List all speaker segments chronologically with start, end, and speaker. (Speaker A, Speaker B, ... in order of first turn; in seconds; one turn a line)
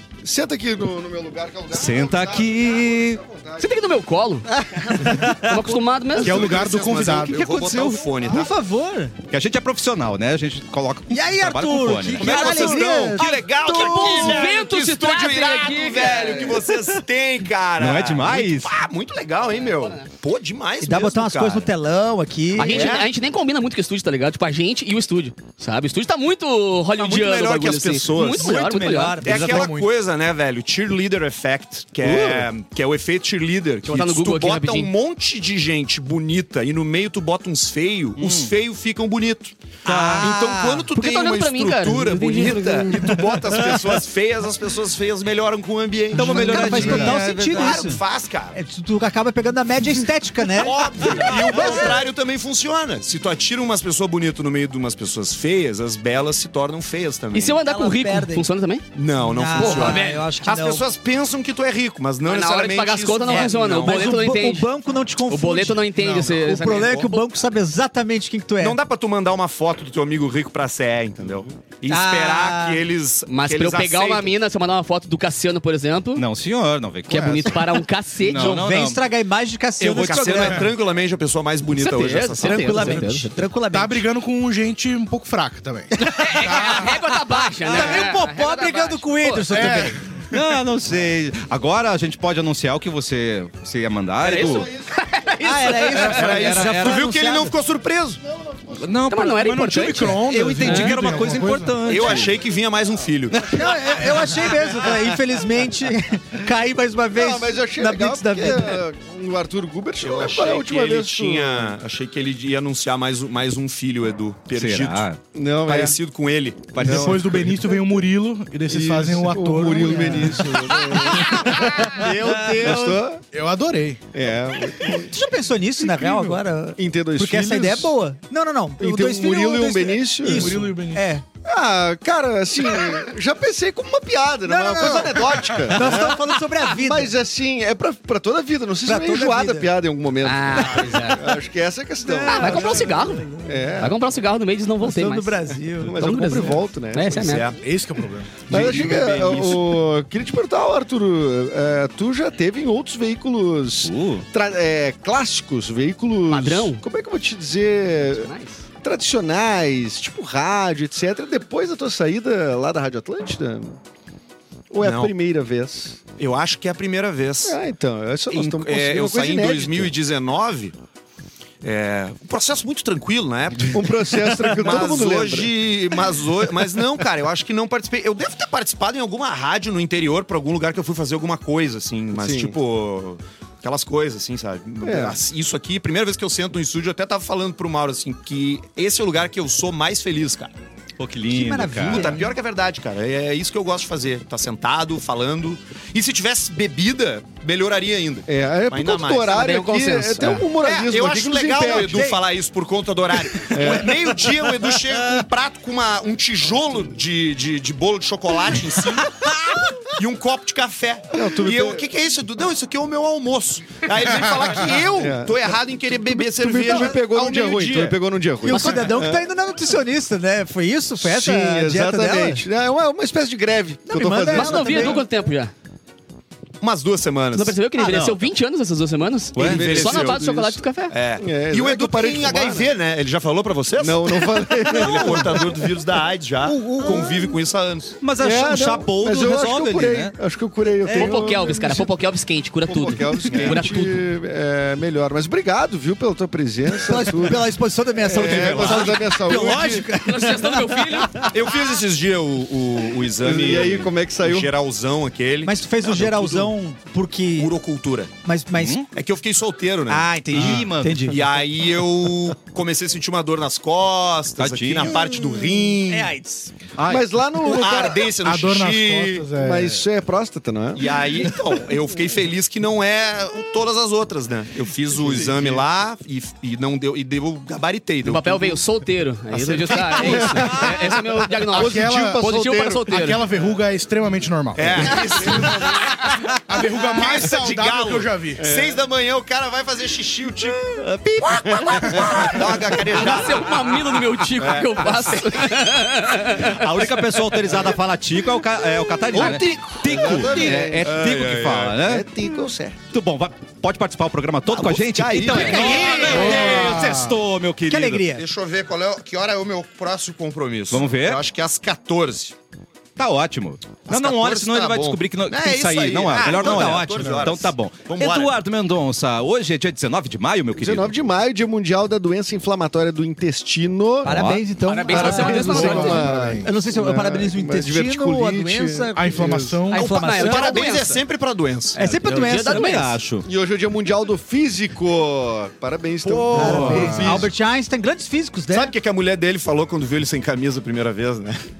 Speaker A: 0.2-3.8
Speaker B: 1.7-3.2
Speaker C: 3.6-4.5
Speaker D: 4.9-5.5
Speaker C: 5.1-6.4
Speaker E: 6.2-8.1
Speaker F: 6.2-8.5
Speaker A: 6.5-7.2
Speaker D: 8.1-9.1
Speaker B: 9.3-13.2
Speaker D: 11.1-14.4
Speaker F: 12.2-21.7
Speaker C: 13.7-16.6
Speaker B: 17.8-18.7
Speaker C: 19.4-20.1
Speaker D: 20.8-23.0
Speaker C: 22.6-29.2
Speaker F: 22.6-23.1
Speaker F: 27.0-28.6
Speaker D: 28.4-29.6
Speaker F: 29.2-48.6
Speaker E: 29.3-29.9
Speaker B: 29.4-29.7
Speaker B: 32.0-32.5
Speaker C: 33.9-34.9
Speaker B: 38.2-38.5
Speaker B: 39.9-40.4
Speaker D: 39.9-40.9
Speaker C: 40.9-43.3
Speaker D: 43.0-43.3
Speaker B: 46.1-47.9
Speaker D: 46.1-48.0
Speaker E: 46.6-47.1
Speaker D: 48.5-51.9
Speaker F: 50.5-57.6
Speaker B: 51.1-51.8
Speaker C: 57.3-58.8
Speaker D: 57.6-58.5
Speaker F: 59.0-64.1
Speaker D: 59.2-60.8
Speaker C: 59.5-60.2
Speaker C: 62.2-64.7
Speaker D: 63.3-68.8
Speaker C: 65.3-67.2
Speaker F: 68.6-74.3
Speaker D: 71.9-72.8
Speaker C: 73.3-76.2
Speaker B: 76.2-79.0
Speaker C: 77.1-78.5
Speaker D: 78.3-80.7
Speaker B: 79.8-80.6
Speaker F: 79.9-83.1
Speaker C: 81.8-83.3
Speaker D: 82.4-84.0
Speaker E: 83.7-86.0
Speaker D: 86.0-86.9
Speaker C: 86.0-89.7
Speaker E: 86.5-86.9
Speaker D: 87.7-90.0
Speaker B: 87.7-88.0
Speaker E: 89.5-90.5
Speaker B: 90.3-94.7
Speaker C: 94.2-96.5
Speaker D: 95.4-97.5
Speaker F: 95.9-98.2
Speaker B: 95.9-97.3
Speaker A: 98.3-98.8
Speaker B: 98.7-99.5
Speaker C: 99.1-100.9
Speaker E: 99.5-101.9
Speaker B: 100.1-102.4
Speaker F: 101.8-103.5
Speaker D: 103.5-108.8
Speaker A: 107.1-111.8
Speaker F: 110.0-115.0
Speaker B: 114.5-115.2
Speaker A: 115.3-116.0
Speaker F: 115.7-116.8
Speaker B: 116.7-117.4
Speaker A: 116.8-117.5
Speaker E: 116.8-120.6
Speaker A: 118.7-123.2
Speaker D: 119.9-120.5
Speaker D: 121.2-122.9
Speaker E: 123.2-124.0
Speaker A: 124.1-125.1
Speaker D: 124.8-131.2
Speaker E: 125.8-126.4
Speaker A: 126.8-128.0
Speaker A: 128.8-130.7
Speaker E: 130.3-131.1
Speaker A: 131.4-144.0
Speaker D: 134.5-137.1
Speaker D: 138.9-139.7
Speaker C: 140.2-141.4
Speaker D: 142.0-143.7
Speaker C: 142.3-143.3
Speaker C: 143.8-147.5
Speaker D: 144.8-146.0
Speaker A: 145.8-147.4
Speaker F: 147.1-147.6
Speaker E: 147.6-149.1
Speaker A: 148.5-158.3
Speaker F: 148.5-149.4
Speaker B: 153.8-154.2
Speaker C: 156.3-156.8
Speaker C: 158.1-158.6
Speaker A: 158.8-163.8
Speaker A: 164.7-166.0
Speaker F: 164.8-165.1
Speaker F: 166.2-167.6
Speaker A: 167.4-169.9
Speaker F: 168.3-170.8
Speaker F: 171.6-190.5
Speaker A: 173.7-176.0
Speaker A: 182.1-182.6
Speaker A: 184.8-185.2
Speaker B: 191.0-192.2
Speaker D: 191.3-192.3
Speaker F: 191.8-199.6
Speaker A: 198.3-202.1
Speaker C: 199.3-200.5
Speaker F: 200.6-209.4
Speaker D: 201.7-202.2
Speaker A: 203.5-204.2
Speaker F: 209.9-218.8
Speaker A: 211.1-211.9
Speaker A: 214.7-219.3
Speaker D: 218.4-222.4
Speaker A: 221.0-225.0
Speaker D: 223.9-225.0
Speaker C: 224.3-225.5
Speaker F: 226.6-227.6
Speaker C: 227.3-230.9
Speaker B: 227.8-228.2
Speaker B: 229.4-229.7
Speaker F: 229.4-230.2
Speaker A: 229.5-230.6
Speaker F: 230.9-238.0
Speaker A: 231.2-232.7
Speaker A: 233.8-235.7
Speaker D: 234.8-235.2
Speaker D: 236.4-237.4
Speaker B: 238.0-240.1
Speaker A: 238.2-241.9
Speaker D: 240.8-241.6
Speaker C: 240.9-244.0
Speaker A: 242.7-249.9
Speaker D: 246.8-251.3
Speaker B: 248.1-249.0
Speaker C: 250.0-251.3
Speaker F: 251.3-256.5
Speaker A: 253.2-254.5
Speaker D: 255.4-257.5
Speaker F: 257.4-258.1
Speaker D: 258.2-258.8
Speaker B: 258.6-258.9
Speaker F: 258.9-266.1
Speaker D: 259.9-261.2
Speaker B: 260.3-261.2
Speaker B: 264.4-265.2
Speaker D: 265.9-266.5
Speaker B: 266.8-267.1
Speaker A: 266.9-268.1
Speaker F: 267.4-269.3
Speaker E: 268.1-269.9
Speaker A: 269.4-270.9
Speaker F: 270.8-278.6
Speaker E: 275.1-275.6
Speaker C: 278.1-283.2
Speaker F: 279.5-280.3
Speaker A: 279.8-282.9
Speaker E: 281.5-282.3
Speaker E: 282.9-285.7
Speaker F: 284.6-295.5
Speaker E: 286.4-288.6
Speaker A: 288.4-288.8
Speaker B: 290.7-292.1
Speaker C: 292.8-296.7
Speaker B: 296.4-302.1
Speaker F: 299.1-301.8
Speaker A: 299.2-300.9
Speaker A: 301.8-302.8
Speaker B: 302.9-308.1
Speaker F: 304.5-307.1
Speaker D: 305.2-306.9
Speaker E: 306.1-307.2
Speaker D: 307.7-308.2
Speaker F: 308.1-312.4
Speaker B: 310.7-311.2
Speaker B: 313.0-320.9
Speaker F: 313.9-318.4
Speaker D: 316.1-317.2
Speaker E: 316.9-317.2
Speaker A: 320.6-324.2
Speaker D: 324.0-330.8
Speaker B: 324.1-324.5
Speaker C: 324.7-326.1
Speaker A: 324.9-329.6
Speaker E: 324.9-326.5
Speaker E: 328.9-329.9
Speaker C: 329.7-331.0
Speaker F: 330.1-331.8
Speaker D: 331.8-332.9
Speaker C: 332.0-332.9
Speaker B: 332.3-333.2
Speaker A: 333.2-337.3
Speaker F: 336.0-336.4
Speaker D: 336.3-338.7
Speaker B: 336.4-337.1
Speaker E: 336.4-337.2
Speaker F: 338.5-341.4